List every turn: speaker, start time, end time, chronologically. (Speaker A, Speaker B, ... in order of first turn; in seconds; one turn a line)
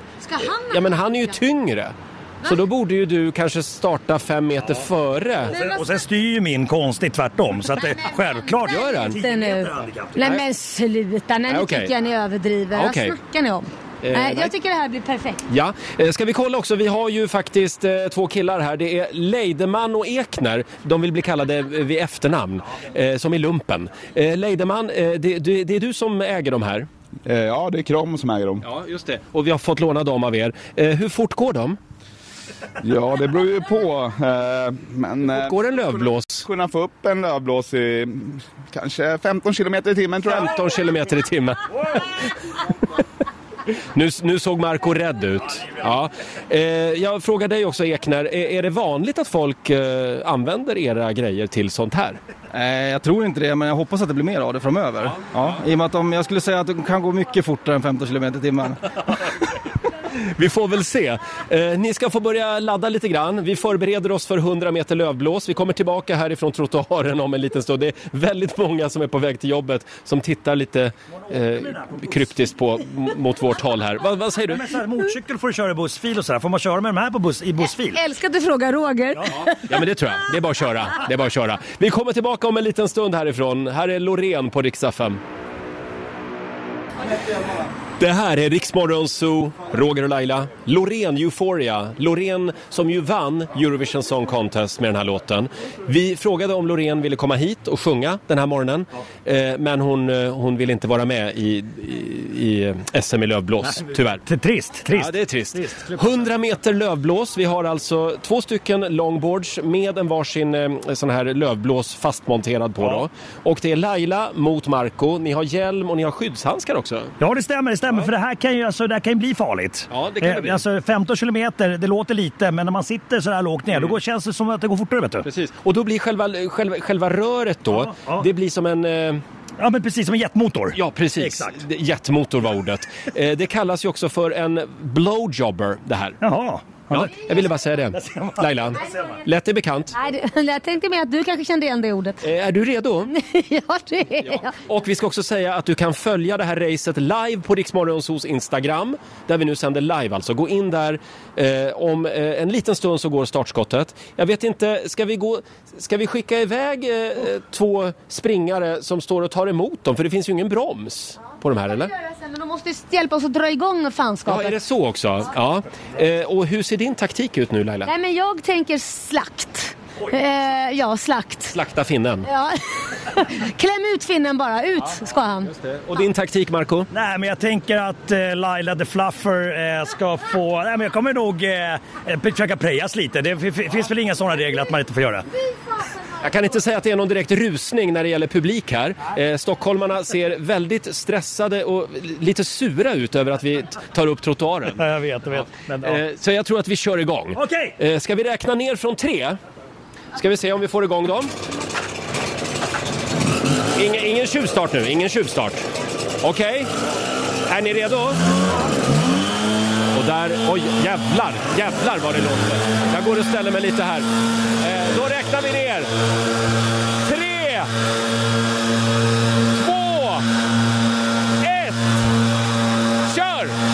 Speaker A: 0.2-1.0
Speaker B: 0.4-5.5
Speaker C: 5.5-10.2
Speaker A: 5.5-5.9
Speaker A: 7.8-15.4
Speaker B: 8.7-9.2
Speaker B: 10.2-10.4
Speaker B: 11.5-11.9
Speaker B: 12.7-13.2
Speaker B: 14.0-14.5
Speaker B: 15.5-26.9
Speaker D: 27.3-28.6
Speaker B: 28.6-31.8
Speaker D: 32.8-40.5
Speaker B: 35.2-36.5
Speaker B: 40.2-42.2
Speaker B: 43.9-52.2
Speaker E: 52.5-58.8
Speaker B: 60.2-74.7
Speaker C: 71.1-72.3
Speaker C: 74.5-78.0
Speaker A: 77.9-79.6
Speaker B: 79.6-85.2
Speaker B: 88.0-104.2
Speaker C: 103.7-106.2
Speaker B: 104.9-117.1
Speaker C: 112.8-113.0
Speaker C: 117.2-125.3
Speaker B: 119.9-120.6
Speaker B: 125.2-129.2
Speaker C: 127.7-128.3
Speaker C: 129.6-131.6
Speaker B: 130.7-136.2
Speaker C: 136.2-137.2
Speaker B: 136.9-139.9
Speaker C: 137.9-139.2
Speaker A: 139.9-142.2
Speaker B: 142.2-143.1
Speaker A: 143.1-144.6
Speaker B: 144.2-161.9
Speaker A: 161.8-164.6
Speaker B: 164.3-167.9
Speaker A: 167.9-171.6
Speaker B: 171.5-172.3
Speaker A: 172.3-175.5
Speaker B: 175.4-176.9
Speaker C: 176.9-185.3
Speaker B: 186.2-194.8
Speaker C: 194.8-196.0
Speaker B: 195.8-199.4
Speaker C: 197.3-197.8
Speaker B: 200.2-201.3
Speaker B: 203.8-205.6
Speaker B: 206.2-206.7
Speaker B: 207.5-208.2
Speaker B: 209.9-215.9
Speaker B: 217.0-217.7
Speaker B: 219.5-220.3
Speaker B: 221.4-222.0
Speaker B: 223.1-223.6